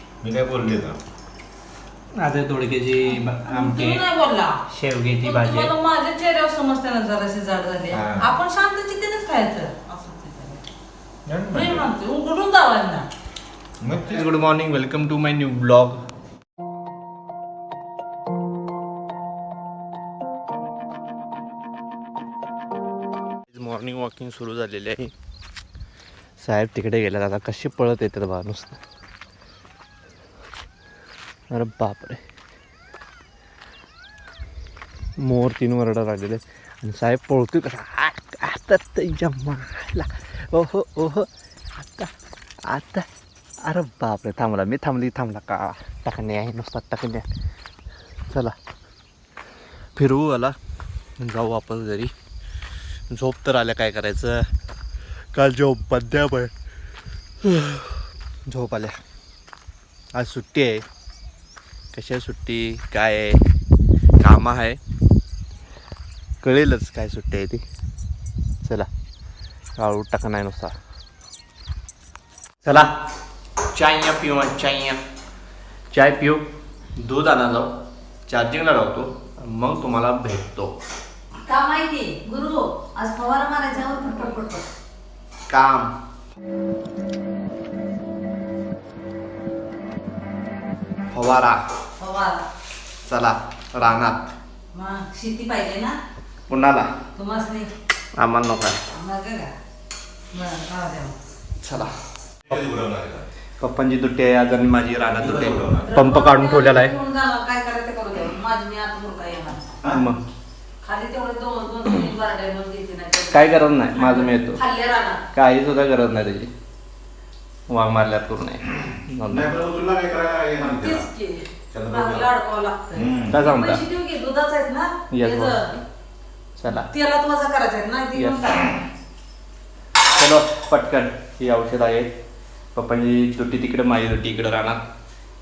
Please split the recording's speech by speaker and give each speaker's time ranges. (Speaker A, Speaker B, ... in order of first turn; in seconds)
Speaker A: 0.2-0.9, 7.9-8.3, 11.3-11.9, 13.8-14.3, 102.5-103.3, 105.1-106.0, 119.3-121.1, 121.7-122.3, 122.9-123.4
Speaker B: 2.2-4.0, 4.7-5.7, 14.1-16.0, 23.5-25.1, 26.4-28.8, 31.5-32.2, 35.2-42.1, 42.7-43.1, 43.6-47.3, 48.3-48.6, 50.0-50.6, 51.2-52.1, 53.1-54.5, 55.3-56.5, 57.4-59.0, 60.1-60.9, 61.9-63.4, 64.2-64.8, 66.4-67.6, 68.6-68.9, 69.8-70.7, 72.7-72.9, 73.7-75.0, 75.9-76.5, 77.0-77.7, 78.3-80.8, 85.5-85.9, 91.1-91.6, 93.0-94.3, 96.5-96.9, 98.2-98.8, 101.6-101.9, 103.6-106.9, 109.9-110.2, 113.3-114.6, 115.3-116.5, 117.7-119.6, 123.3-123.8, 125.1-125.6, 126.6-126.9, 128.2-128.6, 130.2-132.1, 132.8-134.8
Speaker C: 3.1-4.6, 5.2-10.7, 11.5-13.1, 81.4-84.7, 92.0-92.5, 94.7-96.0, 97.2-97.7, 98.9-99.5, 100.3-101.2, 105.8-109.8, 110.8-115.2, 120.8-125.8, 126.7-128.8